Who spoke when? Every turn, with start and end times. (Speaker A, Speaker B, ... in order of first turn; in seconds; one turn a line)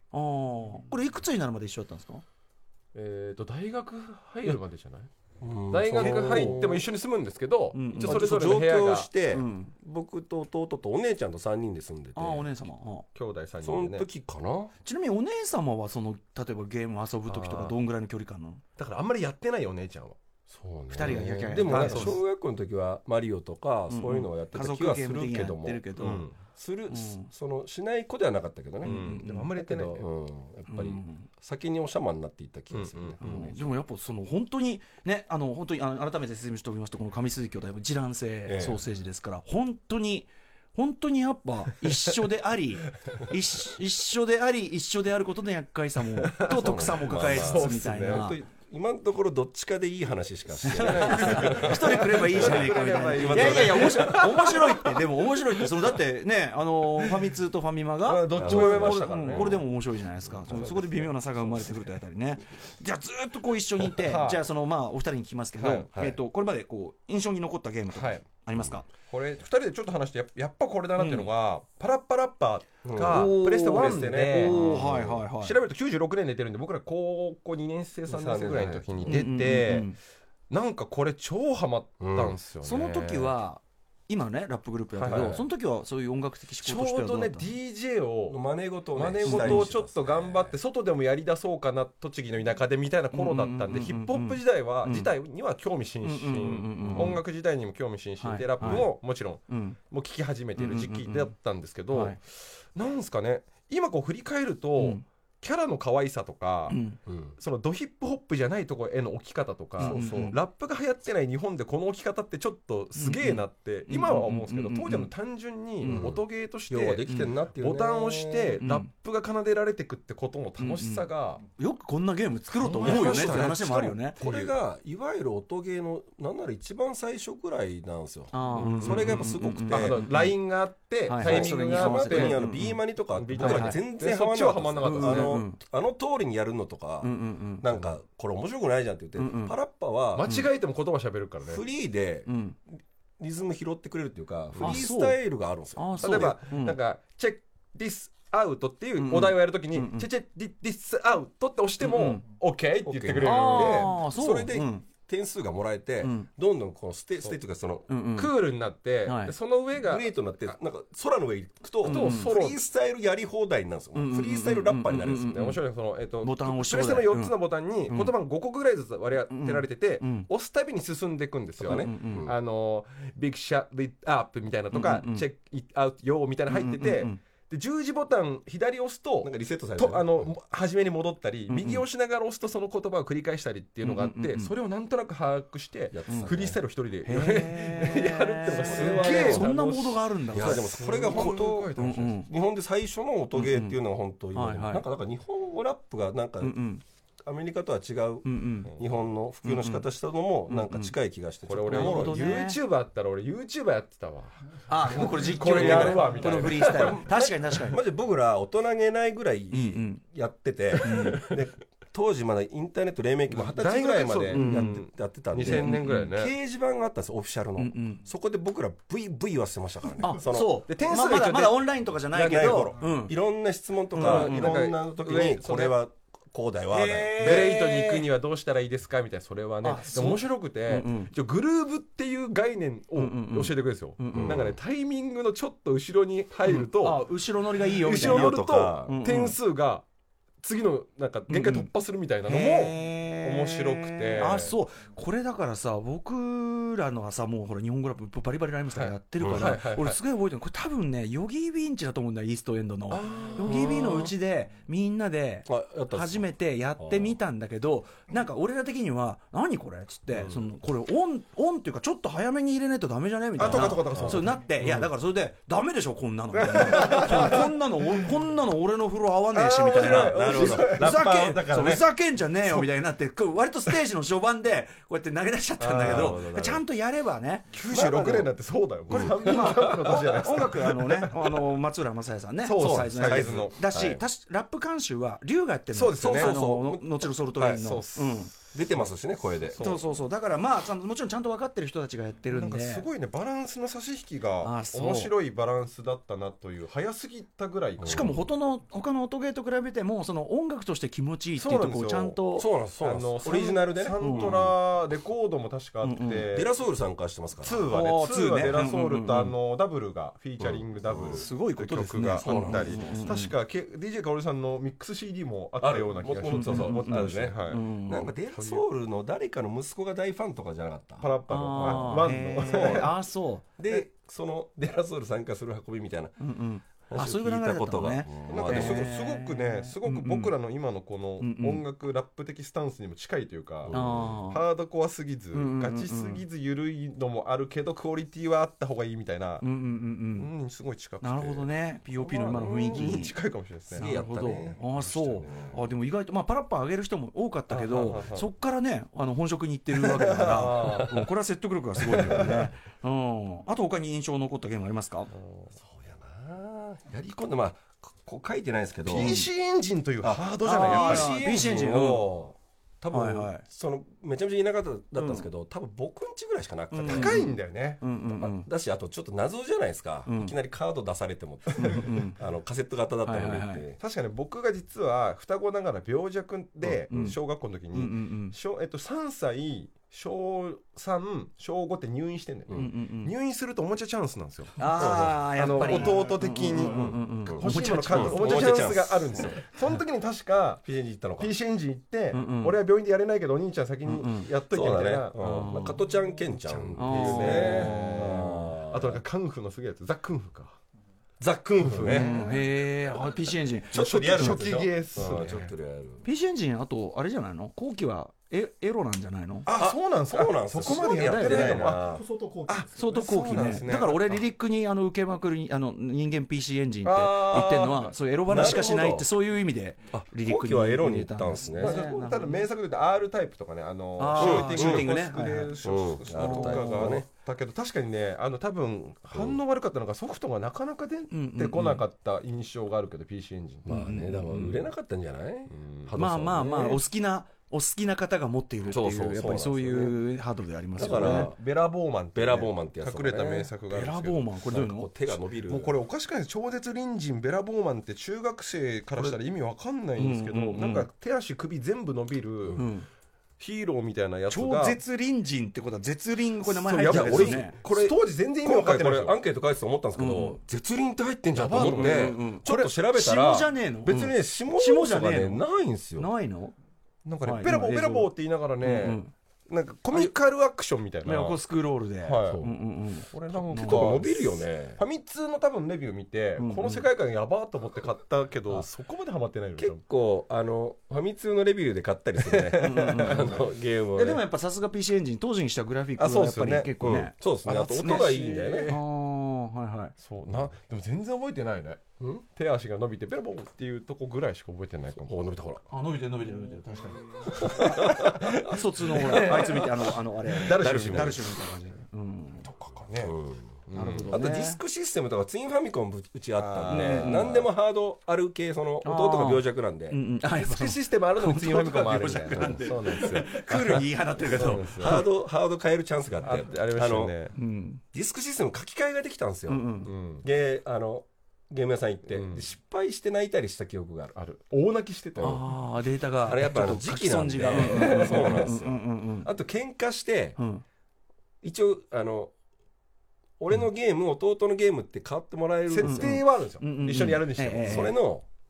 Speaker A: 0.1-2.2
Speaker B: 2.9-5.1
Speaker C: 5.4-6.9
Speaker B: 5.7-9.1
Speaker A: 6.0-6.6
Speaker A: 7.7-8.6
Speaker C: 8.0-12.5
Speaker A: 9.3-9.7
Speaker A: 12.2-13.1
Speaker B: 13.2-14.1
Speaker C: 13.6-14.7
Speaker A: 14.8-18.6
Speaker B: 17.3-17.8
Speaker B: 18.8-20.2
Speaker C: 20.5-33.5
Speaker A: 20.9-22.2
Speaker B: 21.0-22.2
Speaker A: 23.9-26.3
Speaker B: 26.0-26.4
Speaker A: 26.9-27.3
Speaker A: 28.8-29.5
Speaker B: 28.8-30.1
Speaker A: 30.7-31.3
Speaker B: 32.7-33.5
Speaker A: 33.2-48.4
Speaker C: 38.5-38.8
Speaker B: 46.3-48.3
Speaker C: 46.5-54.6
Speaker A: 50.6-68.9
Speaker B: 50.7-55.1
Speaker B: 58.0-59.6
Speaker C: 58.3-59.6
Speaker B: 60.5-61.2
Speaker C: 60.5-60.8
Speaker B: 63.9-64.5
Speaker B: 65.6-66.1
Speaker B: 67.9-68.2
Speaker B: 69.0-80.0
Speaker A: 71.0-71.3
Speaker C: 72.8-75.2
Speaker A: 73.1-75.6
Speaker C: 78.1-79.2
Speaker A: 79.1-80.0
Speaker B: 80.5-83.3
Speaker C: 82.0-82.4
Speaker A: 82.6-87.5
Speaker B: 85.0-85.5
Speaker C: 85.1-85.3
Speaker B: 86.6-88.4
Speaker C: 88.3-90.6
Speaker B: 88.9-106.8
Speaker A: 89.2-89.7
Speaker A: 93.1-95.1
Speaker A: 96.0-97.2
Speaker C: 96.9-97.2
Speaker A: 98.2-99.0
Speaker C: 98.6-98.9
Speaker A: 99.5-99.8
Speaker A: 100.6-101.3
Speaker A: 101.9-102.2
Speaker A: 104.8-105.0
Speaker A: 106.7-107.0
Speaker C: 107.1-107.3
Speaker B: 107.4-121.4
Speaker A: 109.8-110.4
Speaker C: 109.8-110.2
Speaker A: 113.0-115.1
Speaker A: 115.8-116.1
Speaker C: 115.8-118.6
Speaker A: 118.6-118.9
Speaker A: 120.6-124.2
Speaker B: 122.6-124.5
Speaker C: 122.8-130.1
Speaker A: 128.3-130.4
Speaker B: 128.5-132.6
Speaker A: 131.1-133.8
Speaker C: 131.2-140.4
Speaker B: 133.1-135.4
Speaker A: 134.8-135.6
Speaker A: 137.0-137.7
Speaker A: 139.2-139.6
Speaker B: 140.2-141.6
Speaker C: 141.5-142.3
Speaker A: 142.3-142.6
Speaker C: 143.2-146.4
Speaker B: 144.6-144.8
Speaker A: 144.6-145.2
Speaker A: 145.8-146.8
Speaker B: 146.0-154.0
Speaker A: 149.0-150.1
Speaker A: 151.8-152.2
Speaker C: 152.8-157.9
Speaker A: 153.2-154.8
Speaker A: 156.0-156.3
Speaker A: 157.9-158.4
Speaker B: 158.2-160.6
Speaker A: 159.1-159.3
Speaker C: 159.7-165.6
Speaker B: 161.8-162.6
Speaker A: 161.8-162.3
Speaker A: 163.9-165.6
Speaker B: 165.3-192.2
Speaker A: 166.2-167.4
Speaker A: 167.9-168.1
Speaker A: 169.3-170.3
Speaker C: 171.6-172.4
Speaker A: 171.6-172.3
Speaker A: 174.7-175.3
Speaker A: 176.5-177.2
Speaker C: 179.2-180.3
Speaker A: 181.5-181.8
Speaker A: 183.8-184.5
Speaker C: 185.9-186.6
Speaker A: 187.1-192.3
Speaker C: 188.4-189.5
Speaker C: 190.3-196.6
Speaker A: 193.3-193.8
Speaker A: 194.3-194.9
Speaker A: 196.4-196.8
Speaker C: 197.2-202.4
Speaker A: 198.2-198.7
Speaker A: 199.4-199.9
Speaker A: 200.5-200.9
Speaker B: 201.5-207.0
Speaker A: 201.7-202.6
Speaker A: 204.7-207.8
Speaker C: 204.9-220.6
Speaker A: 209.5-210.0
Speaker A: 210.8-211.3
Speaker B: 213.3-216.3
Speaker A: 214.3-214.8
Speaker A: 215.4-216.1
Speaker A: 217.6-218.0
Speaker A: 220.0-223.2
Speaker B: 220.7-221.7
Speaker C: 222.1-227.6
Speaker B: 222.2-222.7
Speaker A: 223.9-224.6
Speaker B: 224.0-225.8
Speaker A: 226.7-228.1
Speaker B: 227.2-237.1
Speaker A: 229.6-231.1
Speaker A: 233.0-234.4
Speaker C: 234.1-234.6
Speaker A: 236.4-239.4
Speaker B: 237.7-239.8
Speaker C: 237.9-238.9
Speaker B: 240.4-244.6
Speaker A: 241.3-241.7
Speaker A: 242.3-278.3
Speaker B: 248.7-250.0
Speaker C: 249.2-249.6
Speaker B: 252.9-254.1
Speaker C: 253.5-254.0
Speaker C: 255.5-257.2
Speaker B: 263.4-264.9
Speaker C: 263.4-264.9
Speaker B: 266.4-267.5
Speaker B: 269.3-271.1
Speaker C: 269.7-271.9
Speaker B: 275.6-276.4
Speaker C: 275.8-276.6
Speaker B: 277.5-281.5
Speaker C: 277.8-278.2
Speaker C: 278.9-280.0
Speaker A: 278.9-288.3
Speaker B: 282.4-283.9
Speaker C: 282.6-284.0
Speaker B: 285.7-286.4
Speaker C: 286.0-286.9
Speaker B: 287.4-288.9
Speaker C: 288.5-289.7
Speaker B: 289.5-289.9
Speaker A: 289.6-292.9
Speaker B: 292.3-298.2
Speaker A: 294.4-295.1
Speaker C: 297.8-298.1
Speaker A: 297.8-302.5
Speaker B: 301.4-302.2
Speaker C: 302.4-304.5
Speaker B: 302.8-306.5
Speaker A: 304.0-304.6
Speaker A: 305.8-306.3
Speaker C: 306.3-307.7
Speaker B: 307.4-317.6
Speaker A: 307.7-309.4
Speaker C: 310.4-311.3
Speaker A: 311.0-313.3
Speaker C: 312.2-313.0
Speaker C: 315.6-322.9
Speaker A: 316.3-318.1
Speaker B: 318.3-318.6
Speaker B: 321.0-322.9
Speaker A: 321.3-323.4
Speaker C: 323.6-326.2
Speaker A: 326.2-330.3
Speaker C: 326.9-329.0
Speaker B: 328.3-339.4
Speaker A: 331.2-331.6
Speaker C: 333.6-334.2
Speaker A: 333.7-334.4
Speaker A: 335.3-336.2
Speaker A: 339.4-340.3
Speaker B: 340.2-343.9
Speaker A: 341.0-343.1
Speaker C: 343.7-345.6
Speaker A: 343.7-355.1
Speaker B: 347.5-348.3
Speaker B: 349.9-351.1
Speaker B: 352.0-352.5
Speaker B: 355.1-355.6
Speaker C: 355.6-359.2
Speaker B: 358.9-361.9
Speaker A: 358.9-359.3
Speaker C: 360.0-367.3
Speaker A: 360.4-362.2
Speaker A: 362.9-363.4
Speaker A: 365.0-365.3
Speaker A: 366.7-367.3
Speaker B: 366.8-367.8
Speaker A: 367.8-368.5
Speaker C: 368.1-373.8
Speaker A: 370.1-370.4
Speaker A: 371.6-372.2
Speaker A: 373.1-373.6
Speaker B: 373.8-390.6
Speaker C: 376.6-377.1
Speaker A: 376.9-377.2
Speaker A: 377.7-378.4
Speaker A: 382.5-383.1
Speaker A: 384.6-388.7
Speaker C: 384.7-385.8
Speaker C: 386.7-389.4
Speaker C: 390.6-391.3
Speaker B: 391.2-395.5
Speaker A: 392.1-392.6
Speaker A: 393.9-394.3
Speaker C: 394.5-399.0
Speaker A: 395.2-395.8
Speaker B: 396.4-400.6
Speaker A: 396.8-398.5
Speaker C: 401.2-402.3
Speaker B: 401.6-402.4
Speaker A: 401.8-404.5
Speaker C: 403.7-406.0
Speaker B: 403.7-405.5
Speaker A: 406.0-409.5
Speaker B: 409.5-414.2
Speaker C: 409.5-412.1
Speaker A: 410.6-411.7
Speaker A: 412.7-422.4
Speaker B: 416.8-418.6
Speaker C: 417.3-417.6
Speaker C: 418.3-419.1
Speaker C: 419.9-421.8
Speaker B: 421.6-433.8
Speaker A: 424.0-425.6
Speaker C: 424.1-424.9
Speaker C: 425.6-427.1
Speaker A: 426.1-427.0
Speaker C: 429.1-429.4
Speaker A: 431.1-431.8
Speaker C: 433.6-436.8
Speaker A: 433.7-434.6
Speaker B: 435.5-436.0
Speaker A: 435.9-441.3
Speaker C: 438.7-440.0
Speaker C: 440.8-441.4
Speaker B: 440.8-444.3
Speaker C: 442.1-443.5
Speaker A: 443.7-444.9
Speaker C: 444.5-445.8
Speaker B: 445.5-452.7
Speaker A: 450.0-450.9
Speaker A: 452.6-452.9
Speaker B: 453.4-454.8
Speaker A: 454.3-457.6
Speaker B: 456.5-459.2
Speaker C: 456.8-466.1
Speaker A: 460.0-460.4
Speaker B: 461.3-462.3
Speaker A: 461.5-465.4
Speaker A: 466.0-466.6
Speaker B: 467.1-471.4
Speaker A: 467.2-469.1
Speaker A: 471.0-474.1
Speaker B: 472.0-472.5
Speaker B: 473.1-479.8
Speaker C: 473.6-474.8
Speaker A: 476.4-476.9
Speaker C: 479.6-484.2
Speaker B: 482.2-483.4
Speaker A: 482.6-483.4
Speaker A: 483.9-489.9
Speaker B: 486.0-486.8
Speaker C: 486.8-488.8
Speaker B: 487.4-488.8
Speaker B: 490.0-495.2
Speaker C: 495.0-495.6
Speaker A: 495.7-502.5
Speaker B: 497.3-501.5
Speaker C: 497.4-501.4
Speaker B: 502.4-503.2
Speaker C: 503.0-503.5
Speaker B: 503.7-504.2
Speaker A: 503.7-504.6
Speaker C: 504.1-510.0
Speaker B: 506.4-507.5
Speaker A: 506.7-507.5
Speaker A: 508.8-515.1
Speaker B: 510.4-515.0
Speaker C: 512.3-512.6
Speaker C: 514.4-517.1
Speaker B: 516.2-517.3
Speaker A: 517.4-517.8
Speaker C: 517.9-524.1
Speaker A: 519.5-519.9
Speaker B: 519.9-520.2
Speaker B: 522.1-522.4
Speaker B: 524.1-525.5
Speaker A: 525.2-529.3
Speaker C: 526.2-530.4
Speaker B: 527.5-528.5
Speaker A: 530.4-530.6
Speaker C: 531.4-532.3
Speaker C: 533.4-536.2
Speaker B: 535.7-538.0
Speaker A: 535.8-538.0
Speaker C: 537.6-538.3